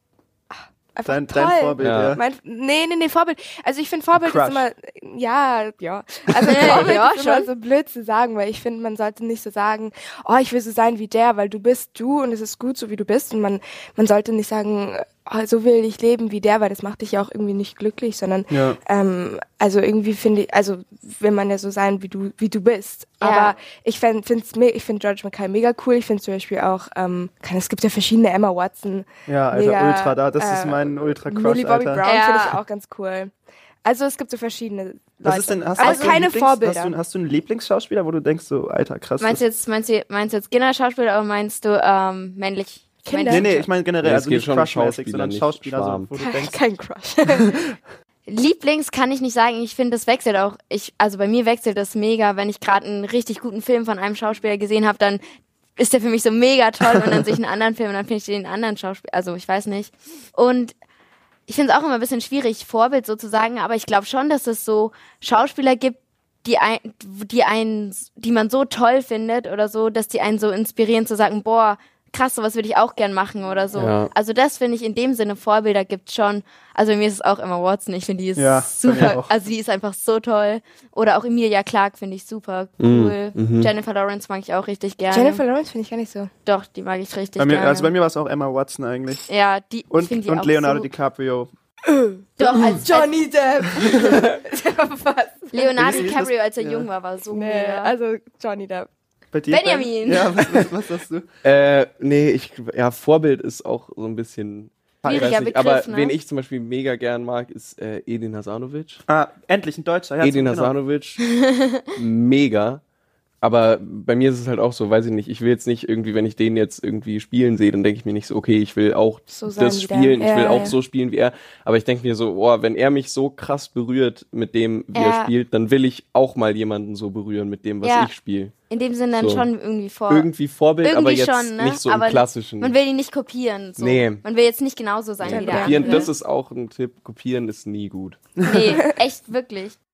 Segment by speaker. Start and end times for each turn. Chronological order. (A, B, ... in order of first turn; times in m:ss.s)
0:00.5-0:36.9 A
0:01.1-0:02.2 B
0:01.8-0:02.2 C
0:04.2-0:04.7 B
0:06.4-0:07.5 D
0:06.6-0:06.9 B
0:18.5-0:18.8 B
0:23.2-0:23.5 D
0:29.3-0:32.0 B
0:32.0-0:32.6 D
0:35.2-0:39.4 B
0:35.8-0:36.2 D
0:39.2-0:43.7 D
0:43.1-0:43.5 A
0:43.3-0:46.6 B
0:44.0-0:46.1 C
0:46.2-0:47.6 A
0:48.3-0:55.2 D
0:55.8-1:00.7 D
1:01.5-1:25.4 D
1:13.8-1:14.1 C
1:18.4-1:19.3 B
1:22.8-1:23.7 C
1:25.1-1:26.3 A
1:26.4-1:27.9 D
1:27.4-1:29.3 B
1:29.3-1:30.9 D
1:29.9-1:31.5 B
1:31.9-1:36.1 A
1:32.4-1:33.1 D
1:35.5-1:37.9 D
1:35.8-1:36.9 B
1:37.3-1:38.9 A
1:39.3-1:41.3 B
1:39.5-1:40.4 D
1:41.4-1:49.0 C
1:45.0-1:45.3 B
1:45.1-1:46.1 D
1:49.1-1:50.7 B
1:50.2-1:51.2 C
1:51.2-1:51.9 D
1:51.9-1:52.8 C
1:53.4-2:08.5 C
1:59.4-2:00.8 A
2:04.9-2:05.3 D
2:07.8-2:08.1 D
2:08.7-2:10.3 D
2:09.2-2:09.5 C
2:10.1-2:12.7 C
2:10.8-2:16.1 D
2:13.8-2:14.2 C
2:15.2-2:18.2 C
2:15.2-2:16.1 A
2:18.4-2:19.8 D